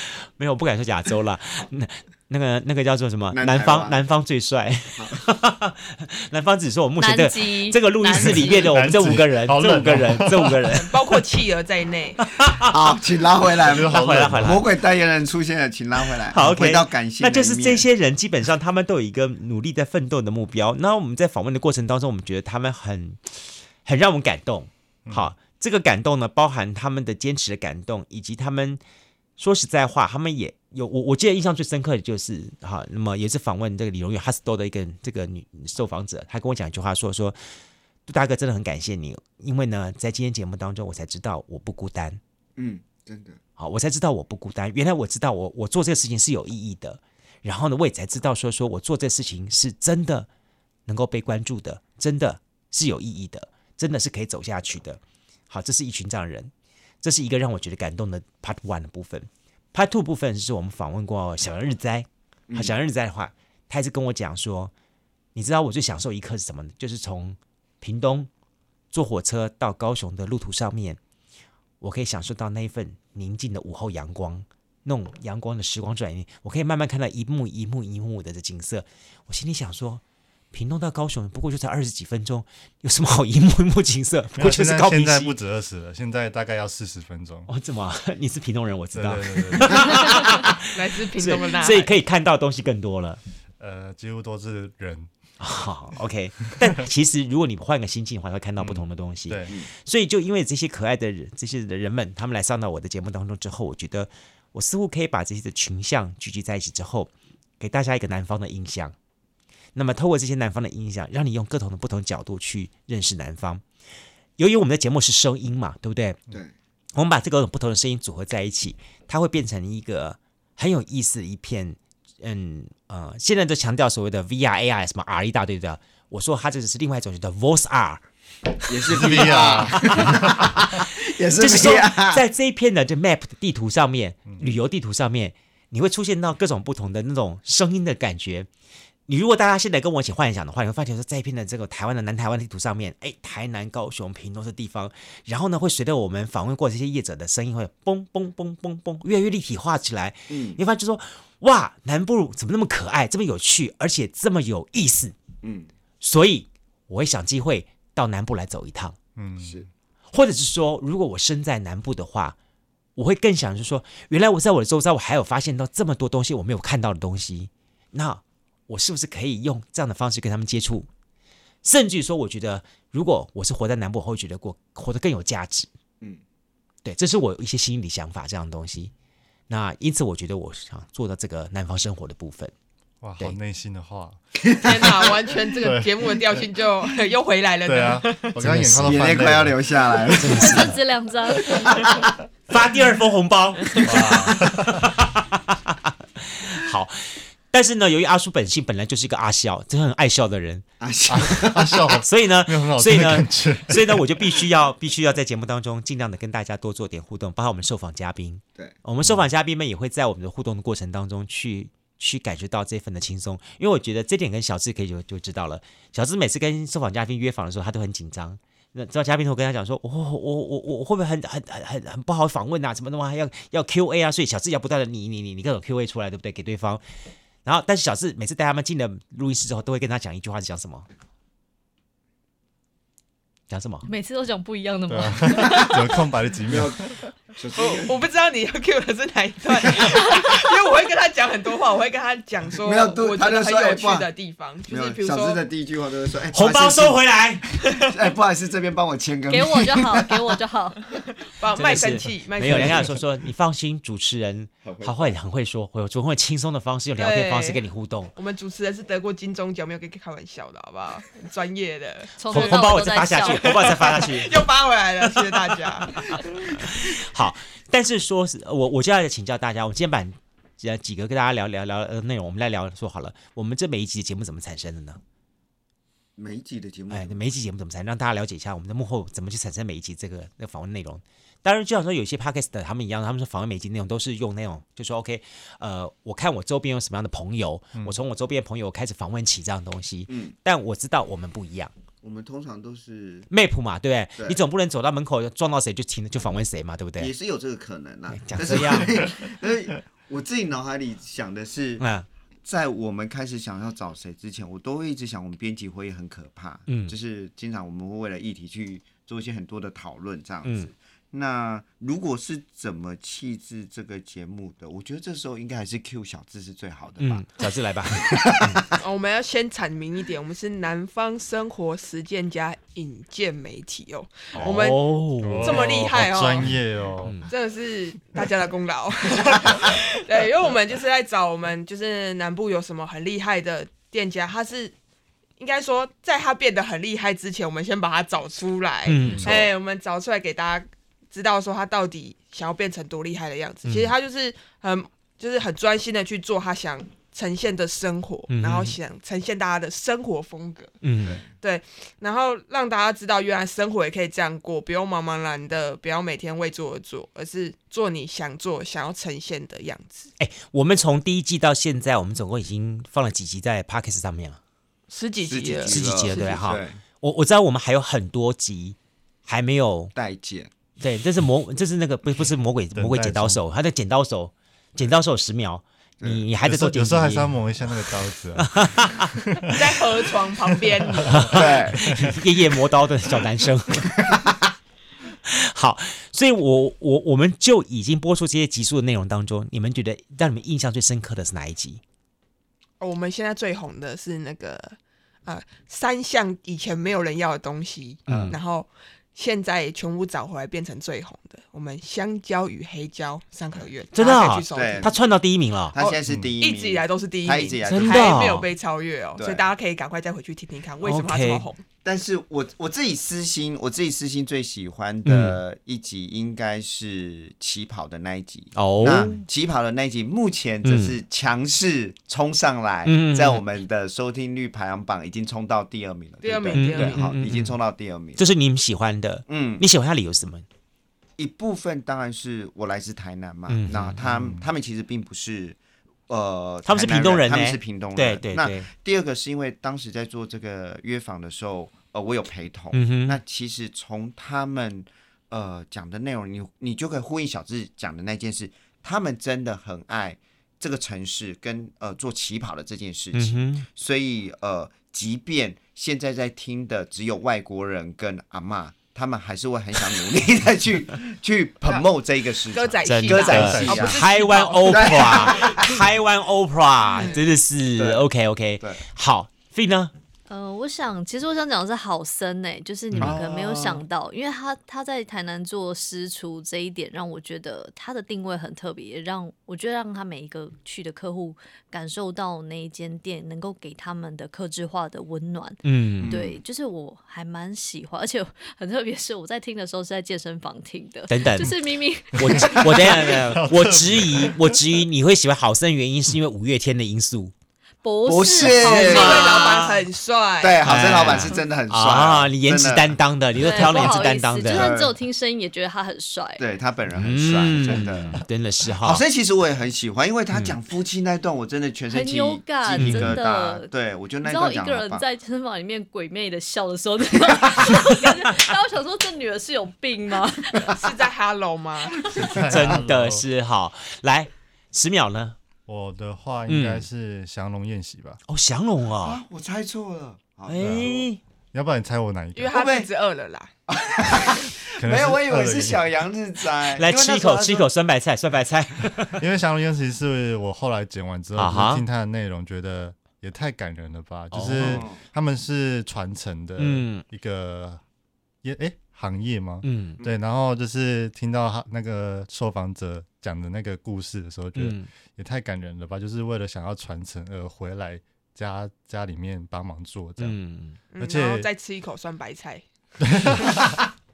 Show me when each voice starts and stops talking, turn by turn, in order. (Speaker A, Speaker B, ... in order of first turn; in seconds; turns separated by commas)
Speaker A: 0.4-10.9, Speaker B: 3.3-4.0, Speaker C: 7.0-8.7, Speaker D: 8.2-10.6, Speaker E: 10.7-12.2, Speaker A: 12.2-12.9, Speaker B: 12.7-17.9, Speaker D: 13.6-14.6, Speaker A: 13.8-14.7, Speaker A: 16.3-28.8, Speaker A: 29.4-37.4, Speaker A: 38.0-42.2, Speaker B: 42.6-43.4, Speaker A: 43.6-50.3, Speaker A: 50.9-64.7, Speaker B: 62.5-62.7, Speaker A: 65.3-68.3, Speaker A: 68.9-71.0, Speaker A: 71.8-80.0, Speaker A: 80.5-85.3, Speaker D: 84.3-87.5, Speaker A: 87.5-93.2, Speaker D: 88.9-90.1, Speaker E: 90.6-91.9, Speaker D: 93.6-95.1, Speaker A: 95.4-108.9, Speaker D: 98.6-99.5, Speaker A: 109.7-113.6, Speaker A: 114.4-116.2, Speaker A: 116.9-128.0, Speaker B: 128.7-132.2, Speaker A: 128.9-130.8, Speaker D: 128.9-130.4, Speaker A: 131.3-138.5, Speaker A: 139.1-155.1, Speaker B: 150.3-150.6, Speaker B: 155.4-155.7, Speaker A: 156.0-159.0, Speaker D: 159.2-159.7, Speaker B: 159.4-159.7, Speaker A: 160.1-162.3, Speaker A: 162.9-170.9, Speaker A: 171.6-175.7, Speaker A: 176.8-178.9, Speaker A: 179.5-182.5, Speaker D: 183.0-184.2, Speaker B: 184.4-185.0, Speaker E: 184.6-188.4, Speaker D: 185.6-186.2, Speaker D: 187.7-189.7, Speaker A: 188.4-189.3, Speaker B: 188.8-190.7, Speaker A: 190.1-190.8, Speaker C: 190.3-192.1, Speaker B: 191.5-192.1, Speaker A: 192.5-200.6, Speaker D: 193.8-194.9, Speaker B: 200.8-202.0, Speaker D: 201.1-204.1, Speaker A: 202.0-226.8, Speaker A: 227.4-230.8, Speaker A: 233.5-233.9, Speaker C: 233.8-236.1, Speaker D: 234.9-237.0, Speaker B: 236.5-238.0, Speaker E: 237.6-245.4, Speaker B: 242.6-244.1, Speaker B: 244.7-247.0, Speaker A: 246.3-247.4, Speaker B: 247.8-250.2, Speaker C: 249.3-250.8, Speaker E: 250.9-252.9, Speaker A: 251.5-258.1, Speaker B: 254.6-255.1, Speaker E: 257.0-257.6, Speaker E: 258.1-266.5, Speaker C: 262.2-263.5, Speaker A: 262.3-264.4, Speaker A: 265.8-275.0, Speaker B: 276.1-277.2, Speaker A: 276.9-291.7, Speaker B: 290.1-290.3, Speaker B: 292.0-293.3, Speaker A: 293.3-297.1, Speaker B: 297.0-301.8, Speaker A: 298.1-299.0, Speaker A: 301.8-302.1, Speaker B: 302.4-317.4, Speaker A: 306.7-306.9, Speaker A: 310.4-310.7, Speaker A: 317.0-318.6, Speaker B: 317.9-318.7, Speaker E: 318.8-326.5, Speaker A: 324.3-325.9, Speaker D: 325.2-327.2, Speaker A: 326.4-327.3, Speaker E: 327.3-334.7, Speaker E: 335.4-350.7, Speaker A: 338.8-339.5, Speaker D: 339.0-339.3, Speaker A: 343.6-343.9, Speaker A: 348.3-348.8, Speaker A: 350.8-351.2, Speaker E: 351.3-360.1, Speaker A: 360.2-364.4, Speaker E: 364.9-366.4, Speaker B: 365.2-366.8, Speaker A: 365.6-369.9, Speaker B: 369.9-370.5, Speaker A: 370.8-377.4, Speaker D: 372.7-373.4, Speaker D: 376.4-379.8, Speaker A: 378.4-379.1, Speaker E: 379.5-381.4, Speaker D: 380.9-382.2, Speaker A: 381.0-384.1, Speaker B: 381.3-381.9, Speaker A: 385.3-391.8, Speaker E: 392.8-404.9, Speaker A: 398.1-398.4, Speaker A: 403.9-405.8, Speaker B: 404.5-404.9, Speaker B: 405.7-408.4, Speaker E: 405.8-411.6, Speaker D: 406.1-406.3, Speaker A: 407.6-408.5, Speaker B: 409.2-409.5, Speaker A: 410.8-411.4, Speaker B: 411.8-428.2, Speaker A: 415.1-415.4, Speaker A: 418.5-419.2, Speaker A: 420.6-420.9, Speaker A: 422.8-423.4, Speaker E: 426.2-427.1, Speaker A: 426.5-427.6, Speaker A: 428.2-430.4, Speaker B: 429.3-429.6, Speaker B: 431.2-435.6, Speaker A: 433.5-434.0, Speaker D: 434.0-434.4, Speaker B: 436.1-464.0, Speaker A: 436.6-438.7, Speaker A: 442.7-443.2, Speaker A: 453.1-453.6, Speaker E: 462.5-465.5, Speaker A: 462.8-469.9, Speaker D: 463.3-463.8, Speaker B: 464.6-465.8, Speaker E: 466.9-467.2, Speaker B: 467.8-468.0, Speaker C: 470.3-493.2, Speaker A: 472.9-473.2, Speaker B: 473.0-473.8, Speaker A: 485.6-486.1, Speaker B: 486.0-486.4, Speaker A: 491.1-491.6, Speaker A: 492.1-497.3, Speaker D: 492.2-494.6, Speaker C: 497.8-499.5, Speaker B: 498.0-499.4, Speaker A: 498.6-499.8, Speaker E: 498.6-500.9, Speaker B: 500.4-503.0, Speaker A: 500.6-504.7, Speaker C: 503.4-506.4, Speaker B: 503.5-504.9, Speaker B: 506.4-508.2, Speaker A: 506.9-509.0, Speaker B: 508.8-515.0, Speaker C: 511.9-513.7, Speaker A: 512.8-513.2, Speaker C: 514.2-520.7, Speaker E: 520.7-522.0, Speaker B: 522.1-522.3, Speaker D: 522.2-523.2, Speaker A: 522.5-525.4, Speaker D: 525.6-528.2, Speaker A: 526.5-526.9, Speaker A: 528.3-529.2, Speaker B: 529.0-531.1, Speaker A: 530.5-531.2, Speaker D: 530.6-530.9, Speaker D: 531.5-532.6, Speaker E: 532.4-533.5, Speaker B: 532.5-532.9, Speaker B: 533.7-537.7, Speaker D: 534.7-535.9, Speaker A: 536.7-539.2, Speaker D: 539.1-547.8, Speaker A: 541.4-541.8, Speaker A: 544.3-544.9, Speaker B: 544.6-545.0, Speaker A: 546.6-547.0, Speaker D: 548.4-560.4, Speaker A: 549.6-550.0, Speaker A: 554.5-554.9, Speaker A: 560.2-560.8, Speaker E: 560.9-562.6, Speaker D: 561.0-561.5, Speaker D: 563.0-563.7